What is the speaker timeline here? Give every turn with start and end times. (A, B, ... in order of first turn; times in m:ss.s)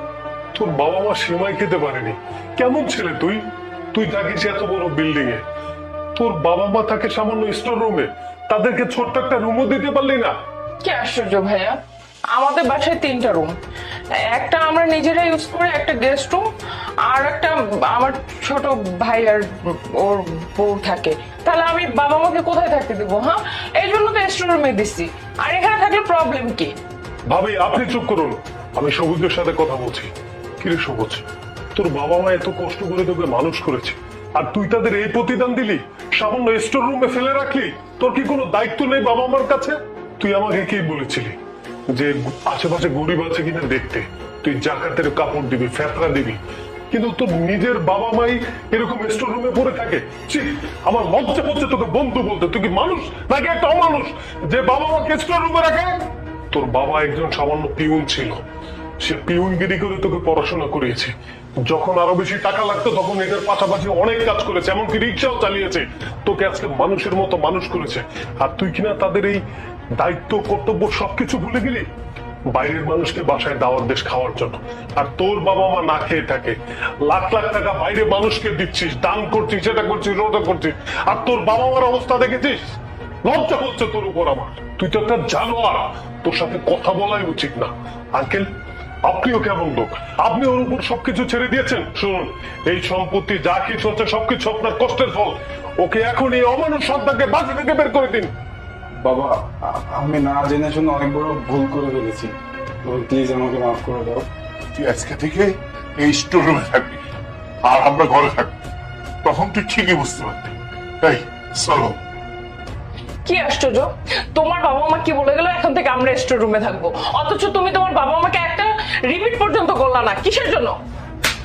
0:00.5-0:05.4 A
0:06.2-0:10.3 A
0:10.8-0:11.8 B
0:12.3-0:13.5 B
0:14.1-0:16.4 B
0:17.0-0:26.7 B
0:27.3-0:31.2 A
0:31.7-0:41.4 A
0:41.9-0:46.4 A
0:46.9-0:58.4 A
0:59.0-1:01.1 A
1:01.6-1:09.4 A
1:10.0-1:11.9 A
1:12.5-1:22.6 A
1:23.2-1:28.5 A
1:29.0-1:38.3 A
1:39.0-1:42.3 C
1:42.8-1:44.2 C
1:44.7-1:47.0 D
1:47.6-1:48.5 D
1:49.2-1:52.0 D
1:53.2-2:00.7 B